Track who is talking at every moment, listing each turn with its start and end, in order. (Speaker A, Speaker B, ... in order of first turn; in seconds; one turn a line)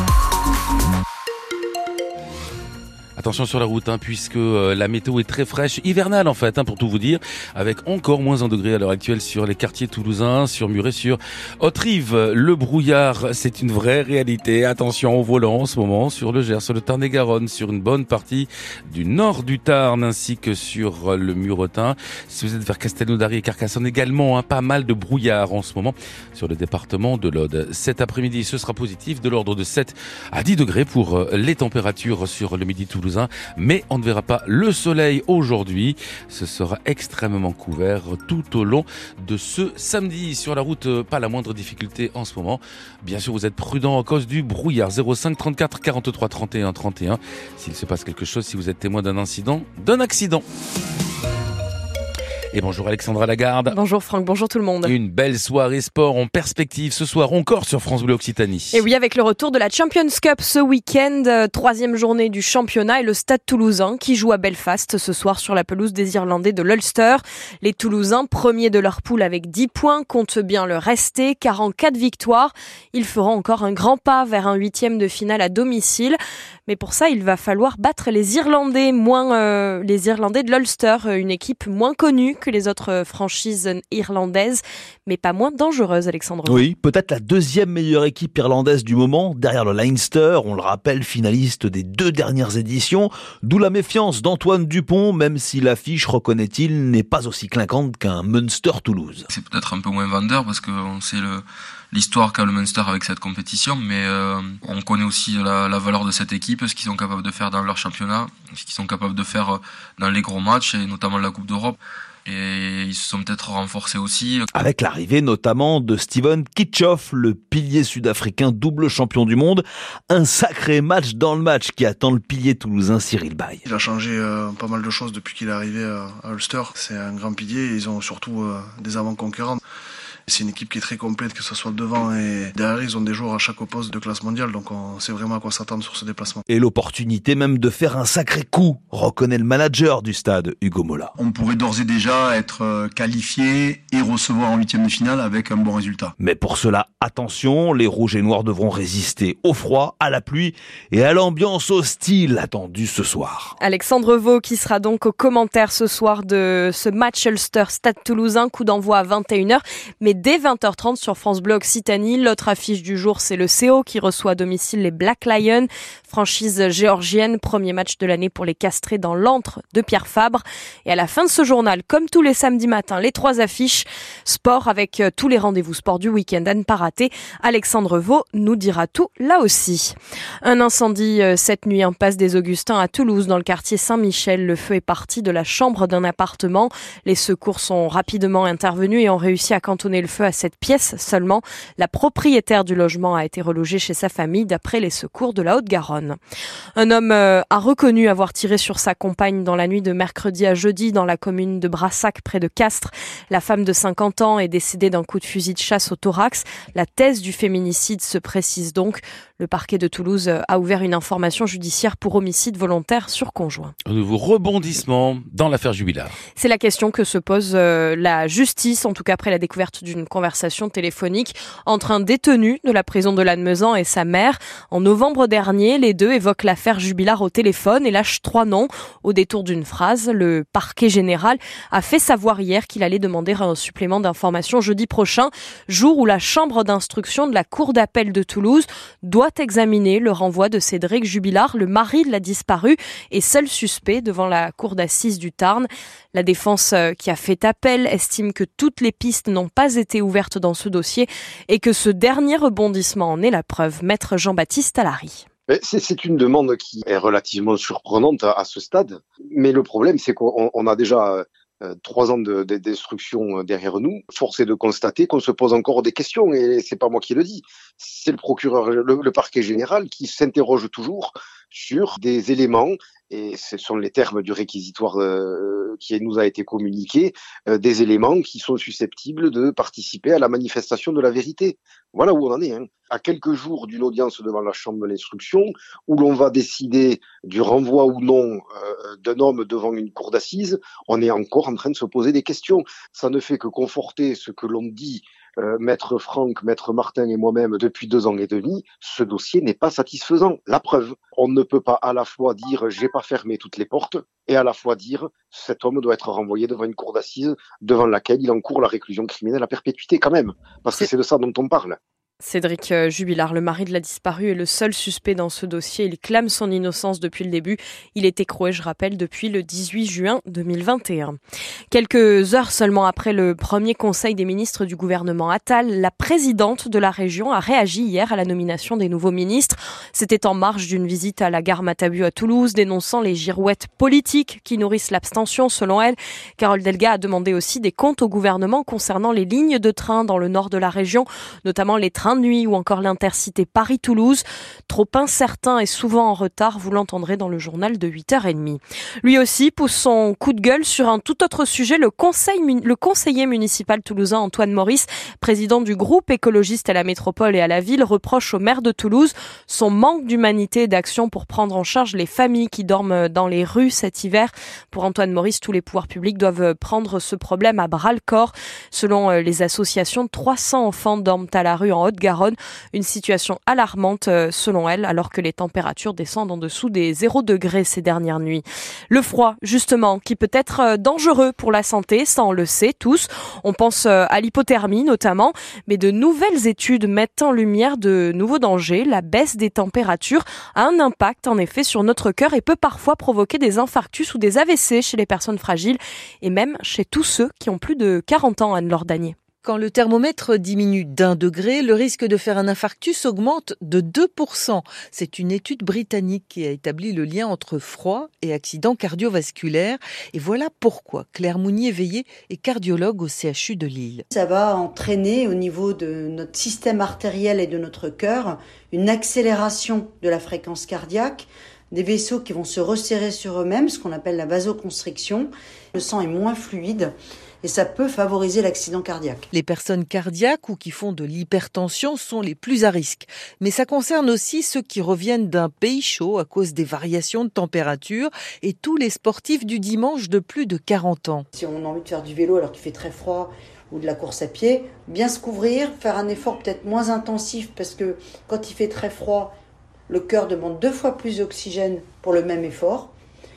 Speaker A: 3.2-50.5
Speaker A: 52.5-53.8
Speaker B: 53.7-55.0
Speaker A: 54.9-58.8
Speaker B: 58.7-86.6
Speaker C: 86.5-99.3
Speaker D: 99.3-114.5
Speaker C: 114.5-123.6
Speaker E: 123.7-129.6
Speaker E: 130.3-136.4
Speaker C: 136.5-141.1
Speaker F: 141.2-146.1
Speaker C: 146.2-153.6
Speaker B: 153.6-196.2
Speaker B: 196.8-213.7
Speaker A: 213.9-216.2
Speaker B: 216.4-255.3
Speaker G: 255.5-311.8
Speaker B: 312.2-321.2
Speaker B: 321.7-399.2
Speaker H: 399.4-414.0
Speaker I: 414.1-429.3
Speaker H: 429.3-441.3
Speaker I: 441.3-449.3
Speaker I: 449.9-452.9